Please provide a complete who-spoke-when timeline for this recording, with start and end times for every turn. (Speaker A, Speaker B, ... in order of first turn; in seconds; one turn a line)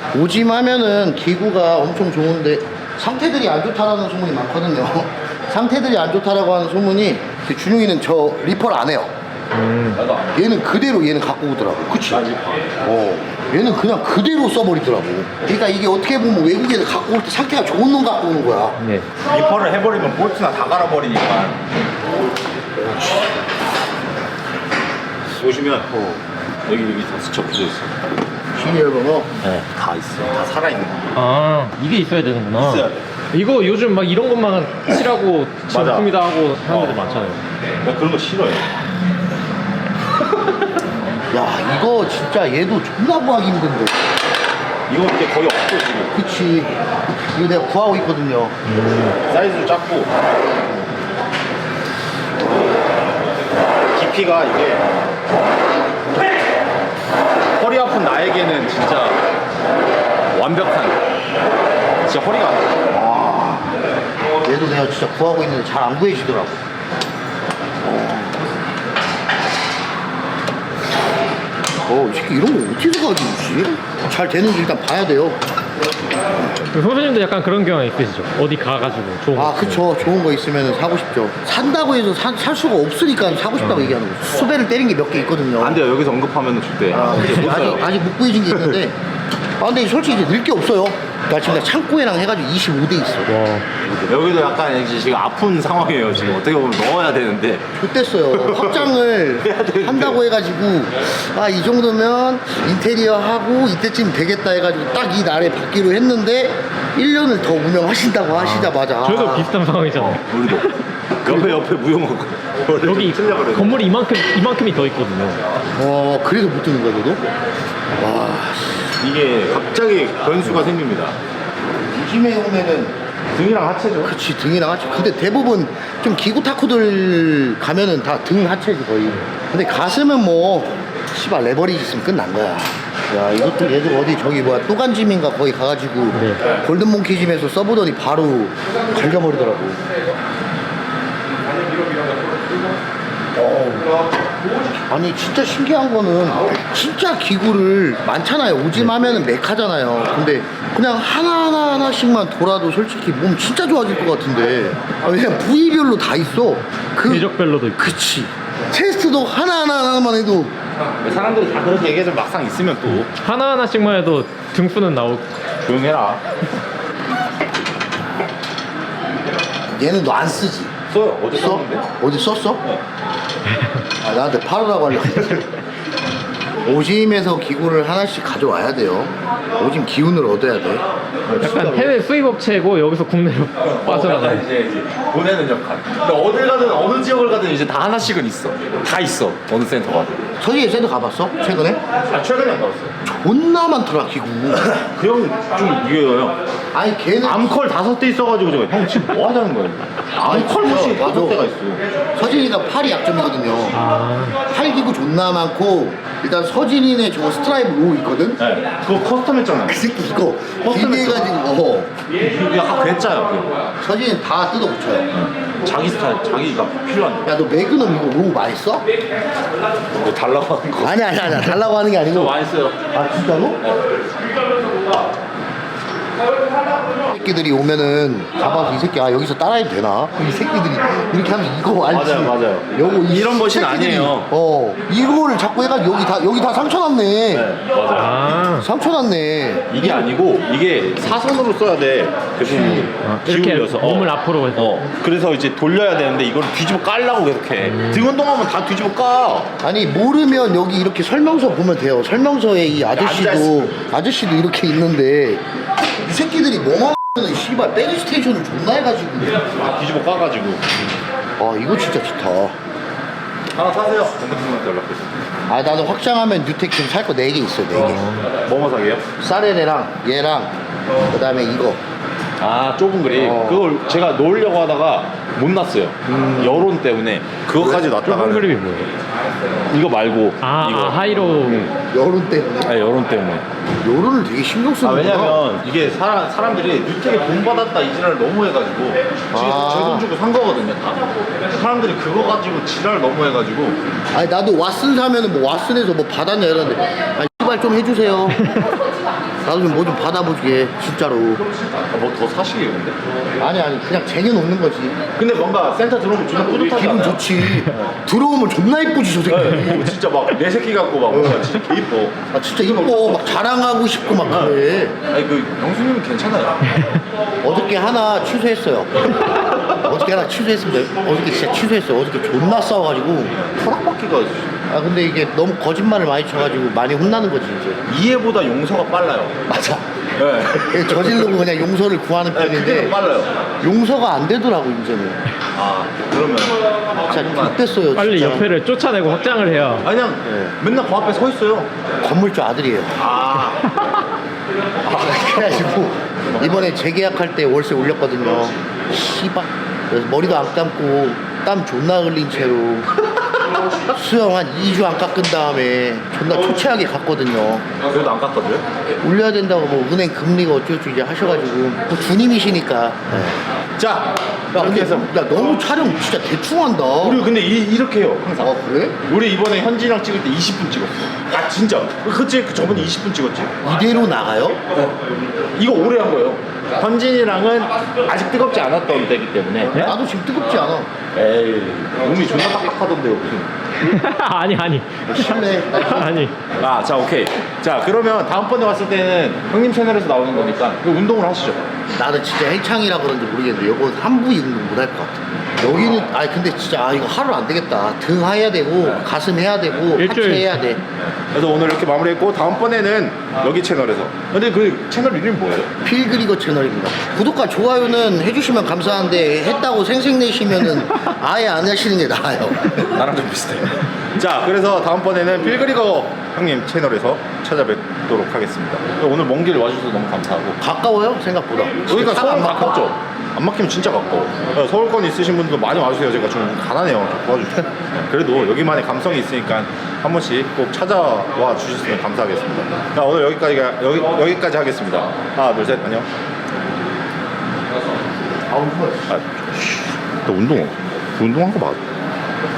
Speaker A: 0.1-9.1
Speaker B: 9.5-10.0
Speaker C: 9.9-10.5
Speaker A: 10.3-12.2
Speaker C: 11.9-12.7
Speaker A: 12.8-18.8
Speaker B: 18.8-19.1
Speaker C: 19.2-21.6
Speaker C: 25.4-25.9
Speaker A: 25.9-26.2
Speaker C: 26.7-27.9
Speaker A: 28.5-29.3
Speaker C: 29.4-31.2
Speaker B: 31.1-37.4
Speaker C: 32.6-33.0
Speaker C: 35.7-36.1
Speaker C: 36.7-37.0
Speaker C: 37.8-38.7
Speaker A: 41.3-44.1
Speaker C: 44.9-46.2
Speaker A: 46.1-46.7
Speaker A: 47.3-48.6
Speaker B: 48.7-49.1
Speaker C: 49.2-50.1
Speaker C: 53.9-55.0
Speaker C: 57.6-59.2
Speaker C: 60.3-61.0
Speaker C: 62.1-62.9
Speaker A: 62.9-63.7
Speaker A: 64.4-66.6
Speaker A: 67.8-68.4
Speaker A: 71.8-75.4
Speaker A: 76.3-76.5
Speaker B: 76.7-79.9
Speaker A: 79.4-85.8
Speaker B: 83.6-83.9
Speaker C: 85.6-87.9
Speaker A: 86.9-89.0
Speaker A: 89.6-94.1
Speaker B: 93.3-93.7
Speaker C: 94.1-97.7
Speaker A: 97.8-109.5
Speaker C: 98.3-98.9
Speaker C: 99.4-100.2
Speaker B: 108.3-110.2
Speaker C: 109.9-113.9
Speaker A: 111.2-111.6
Speaker B: 112.8-115.4
Speaker A: 115.8-117.2
Speaker A: 118.0-118.9
Speaker C: 119.0-121.2
Speaker A: 121.9-123.0
Speaker C: 123.3-124.1
Speaker A: 124.0-139.8
Speaker B: 136.2-136.4
Speaker C: 143.4-143.9
Speaker A: 144.8-160.5
Speaker B: 157.1-157.9
Speaker C: 161.0-163.1
Speaker B: 163.2-165.3
Speaker C: 165.6-166.2
Speaker A: 169.7-170.8
Speaker C: 170.9-171.9
Speaker A: 171.3-172.6
Speaker A: 174.0-175.5
Speaker A: 176.6-180.9
Speaker C: 181.3-181.9
Speaker B: 181.4-184.4
Speaker A: 181.4-181.9
Speaker C: 183.6-190.2
Speaker A: 190.4-191.8
Speaker C: 192.1-193.0
Speaker A: 193.0-194.7
Speaker C: 194.5-196.4
Speaker A: 196.7-197.5
Speaker C: 197.2-201.8
Speaker A: 200.2-201.4
Speaker A: 202.2-203.8
Speaker B: 203.7-204.4
Speaker A: 204.5-208.4
Speaker C: 208.4-209.8
Speaker A: 209.7-211.9
Speaker C: 210.6-211.3
Speaker C: 212.1-213.5
Speaker A: 213.8-215.1
Speaker C: 215.1-217.3
Speaker A: 217.2-218.8
Speaker C: 219.9-221.4
Speaker A: 220.8-222.3
Speaker C: 222.1-222.8
Speaker A: 222.9-223.6
Speaker A: 227.0-237.5
Speaker C: 231.9-234.3
Speaker C: 237.3-238.1
Speaker B: 237.9-238.7
Speaker A: 238.6-239.7
Speaker C: 239.7-249.5
Speaker A: 242.5-242.9
Speaker B: 243.0-244.9
Speaker B: 247.7-248.0
Speaker A: 249.6-255.4
Speaker C: 252.9-253.7
Speaker A: 256.0-259.5
Speaker C: 259.4-260.6
Speaker A: 261.4-262.6
Speaker C: 263.6-265.2
Speaker A: 265.5-268.0
Speaker B: 267.8-268.3
Speaker C: 268.2-269.1
Speaker A: 269.2-271.8
Speaker C: 272.4-278.5
Speaker A: 273.1-273.6
Speaker A: 276.1-276.7
Speaker B: 277.7-278.9
Speaker C: 279.7-281.7
Speaker B: 280.4-281.7
Speaker A: 281.9-282.7
Speaker C: 282.6-283.4
Speaker A: 283.8-285.4
Speaker C: 284.8-293.8
Speaker A: 289.3-290.1
Speaker A: 294.1-298.4
Speaker A: 299.4-301.4
Speaker C: 301.4-303.0
Speaker A: 303.4-305.0
Speaker C: 305.2-307.9
Speaker A: 306.6-309.9
Speaker C: 309.3-312.2
Speaker A: 311.1-311.5
Speaker A: 312.3-315.0
Speaker C: 312.9-313.3
Speaker C: 314.3-316.8
Speaker A: 317.4-323.4
Speaker C: 323.4-324.5
Speaker A: 324.7-327.8
Speaker C: 327.9-329.4
Speaker A: 329.5-329.9
Speaker C: 330.2-331.3
Speaker A: 330.4-333.0
Speaker C: 332.3-333.3
Speaker A: 333.6-335.2
Speaker C: 335.5-337.6
Speaker A: 337.1-338.5
Speaker B: 337.9-339.9
Speaker C: 339.8-341.7
Speaker A: 340.2-340.5
Speaker A: 342.0-343.0
Speaker C: 343.0-343.6
Speaker A: 344.8-352.9
Speaker C: 345.0-345.4
Speaker A: 353.8-357.7
Speaker C: 357.8-358.6
Speaker A: 359.0-363.4
Speaker C: 363.8-365.1
Speaker A: 364.5-367.3
Speaker C: 367.0-373.6
Speaker A: 368.4-369.0
Speaker A: 373.6-374.6
Speaker C: 375.6-379.9
Speaker A: 379.8-380.9
Speaker C: 381.1-383.5
Speaker B: 383.8-386.4
Speaker A: 385.1-386.3
Speaker C: 386.6-391.6
Speaker A: 391.9-400.8
Speaker B: 400.0-400.6
Speaker C: 401.1-405.7
Speaker A: 405.8-412.8
Speaker C: 412.9-420.6
Speaker A: 420.6-422.8
Speaker C: 421.9-436.1
Speaker A: 438.5-439.1
Speaker C: 439.1-441.8